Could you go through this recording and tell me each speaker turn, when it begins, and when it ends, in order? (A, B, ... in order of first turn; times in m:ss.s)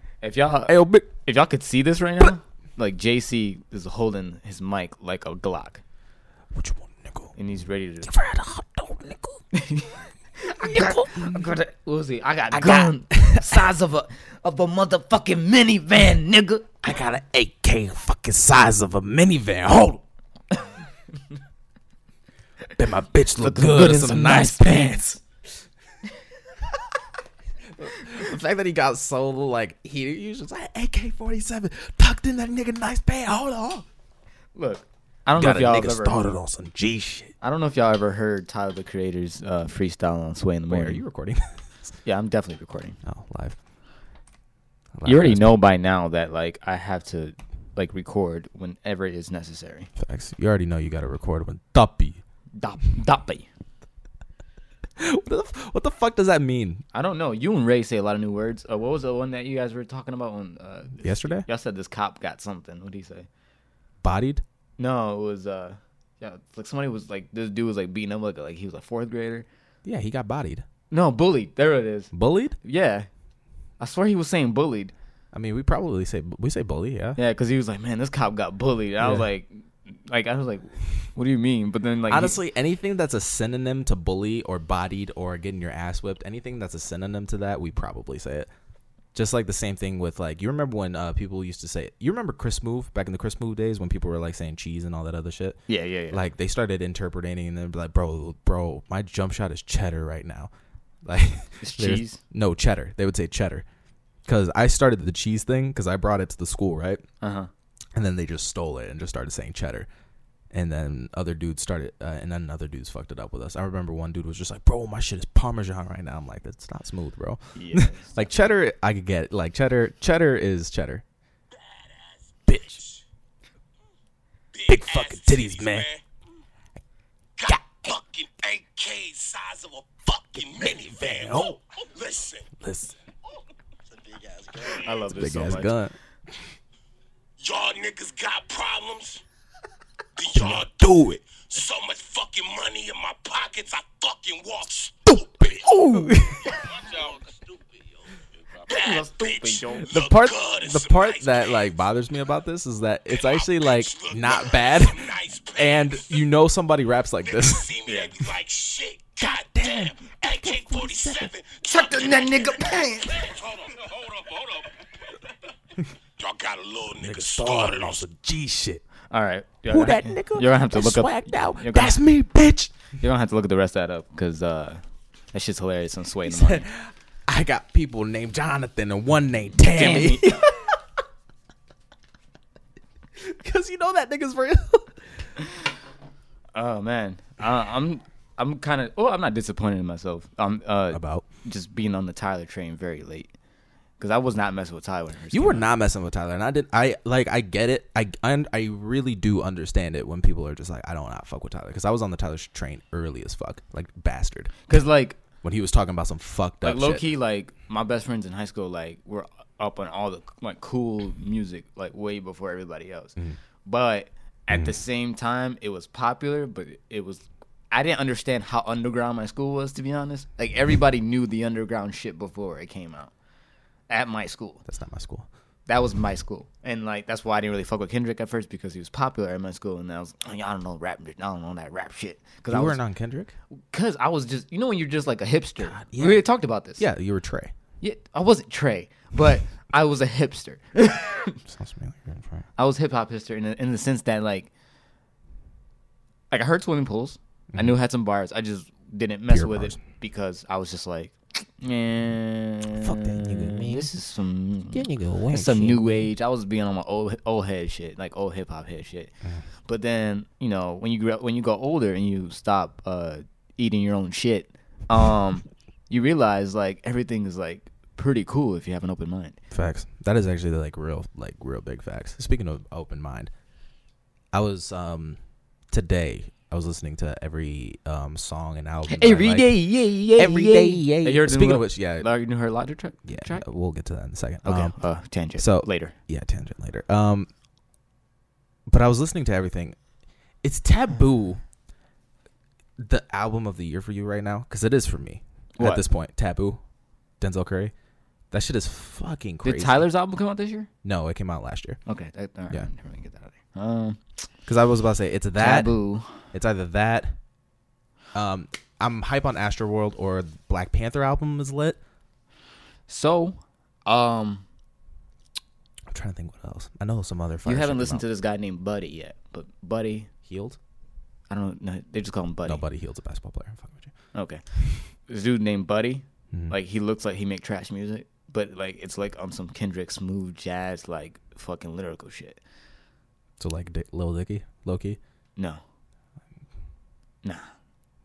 0:00.2-0:05.8 A
0:00.7-0:01.1 B
0:06.5-0:07.4 B
0:07.4-0:08.1 A
0:08.0-0:09.4 B
0:09.5-0:16.7 A
0:10.6-0:11.5 B
0:12.5-0:13.7 B
0:16.8-0:20.0 B
0:22.7-0:25.2 B
0:23.4-0:25.2 A
0:27.7-0:33.9 B
0:34.6-0:36.3 A
0:35.4-0:37.3 B
0:37.4-0:41.0 A
0:40.7-0:41.9 B
0:42.0-0:43.0 A
0:43.0-0:43.6 B
0:45.0-0:45.6 B
0:45.0-0:49.9 A
0:50.0-0:52.2 B
0:52.6-0:53.5 A
0:55.0-0:56.8 B
0:56.9-1:03.3 A
1:01.0-1:01.5 B
1:04.0-1:04.4 B
1:04.8-1:09.5 A
1:09.8-1:10.7 B
1:10.9-1:13.1 A
1:12.1-1:12.6 B
1:13.8-1:14.9 A
1:15.3-1:17.2 B
1:17.2-1:22.4 A
1:19.0-1:19.3 B
1:22.1-1:28.5 B
1:29.1-1:40.5 B
1:35.7-1:36.2 A
1:41.0-1:43.7 B
1:41.6-1:42.2 A
1:44.2-1:47.0 B
1:47.2-1:47.5 A
1:47.9-1:49.9 B
1:50.5-2:01.0 B
1:57.6-1:58.3 A
2:01.7-2:03.0 C
2:02.5-2:02.8 B
2:04.5-2:06.0 C
2:04.7-2:05.9 B
2:07.4-2:12.5 C
2:10.6-2:11.6 B
2:12.6-2:13.0 B
2:14.1-2:14.9 C
2:14.7-2:15.8 A
2:15.1-2:16.0 B
2:17.4-2:19.2 C
2:20.2-2:25.8 C
2:20.4-2:21.2 B
2:25.1-2:26.6 B
2:26.4-2:27.8 C
2:28.5-2:31.7 C
2:28.7-2:29.9 A
2:29.8-2:37.7 B
2:33.1-2:36.2 C
2:37.3-2:45.2 C
2:37.9-2:38.1 A
2:39.2-2:41.3 B
2:41.6-2:43.4 A
2:46.2-2:48.0 C
2:47.0-2:48.8 B
2:49.1-2:52.0 A
2:49.7-2:52.7 B
2:53.0-2:56.7 A
2:56.2-3:00.8 B
2:59.6-3:00.4 A
3:03.2-3:05.3 B
3:06.5-3:13.3 A
3:10.9-3:11.3 B
3:14.0-3:15.7 A
3:15.3-3:24.8 B
3:24.7-3:25.2 A
3:25.4-3:27.0 B
3:26.6-3:43.1 A
3:43.9-3:44.6 A
3:44.7-3:45.3 B
3:45.7-3:52.8 A
3:52.5-3:53.4 B
3:53.5-3:56.8 A
3:55.6-3:57.5 B
3:57.8-4:01.4 A
4:01.4-4:02.5 B
4:02.6-4:04.5 A
4:06.3-4:29.4 A
4:09.3-4:09.8 B
4:12.7-4:13.9 B
4:14.7-4:16.1 B
4:29.5-4:33.3 B
4:34.3-4:35.2 B
4:35.7-4:42.1 B
4:38.9-4:43.5 A
4:43.0-4:44.8 B
4:44.4-4:46.0 A
4:45.3-4:47.3 B
4:48.7-4:49.8 B
4:50.4-4:51.4 B
4:52.8-4:56.6 B
4:55.6-4:55.8 A
4:57.2-4:57.7 B
4:58.3-4:59.8 B
4:59.4-5:00.7 A
5:00.8-5:01.8 B
5:01.9-5:04.0 A
5:04.5-5:07.2 B
5:05.4-5:06.3 A
5:08.1-5:11.8 B
5:12.9-5:14.4 A
5:15.9-5:18.1 B
5:17.4-5:20.1 A
5:20.2-5:20.6 B
5:21.3-5:22.6 A
5:22.5-5:23.9 B
5:24.1-5:24.4 A
5:25.0-5:32.4 A
5:33.4-5:35.0 B
5:35.4-5:35.6 A
5:37.2-5:37.5 A